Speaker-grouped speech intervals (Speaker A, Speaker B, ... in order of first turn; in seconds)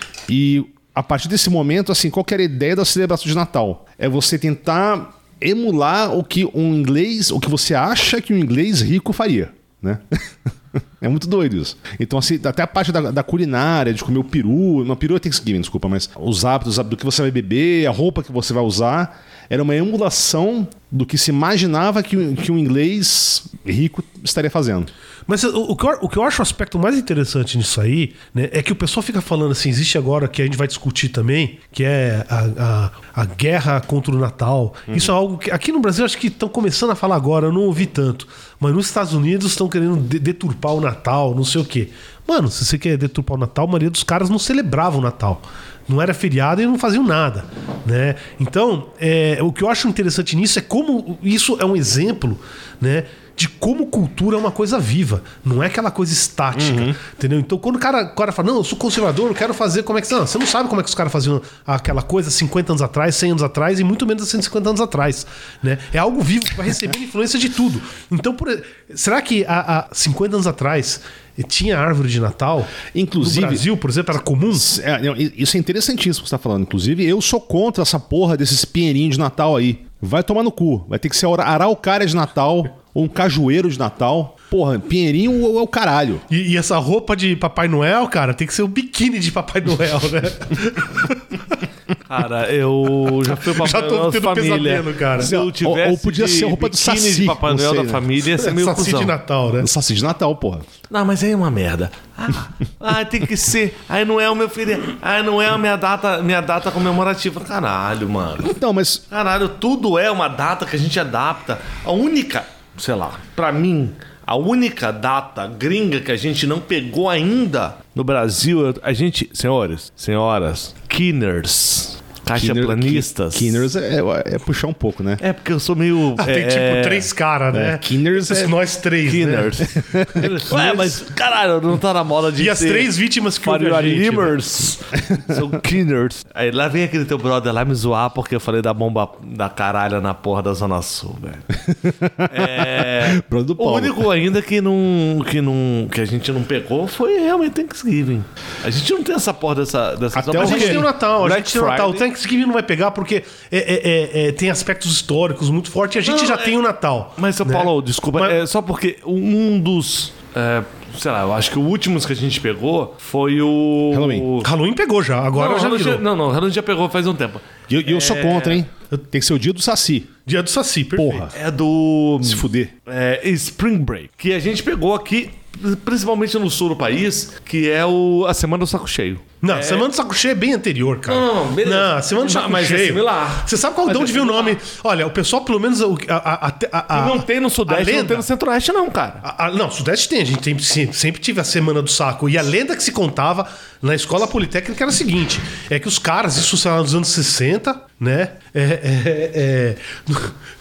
Speaker A: 0.3-24.9, 34.9-35.1, 56.5-57.0, 72.9-73.7, 74.5-86.2, 95.2-98.1, 99.6-100.7, 108.4-109.0, 122.3-125.2, 127.5-128.5, 129.6-130.5, 141.5-144.0, 150.1-150.9, 163.9-164.3, 167.7-170.1, 170.9-171.3, 172.2-172.7
Speaker B: 25.3-74.7, 86.3-91.4, 93.2-95.3, 98.2-99.7, 126.2-129.6, 130.5-131.0, 132.4-134.4, 150.3-158.4, 164.4-166.0, 170.2-171.3, 179.4-188.3, 189.2-200.3
Speaker C: 92.1-99.1, 100.9-108.5, 109.1-123.7, 125.2-127.1, 129.0-141.5, 142.3-152.1, 156.0-156.5, 157.2-164.5, 165.3-168.6, 171.3-179.9, 181.1-184.6, 186.9-189.2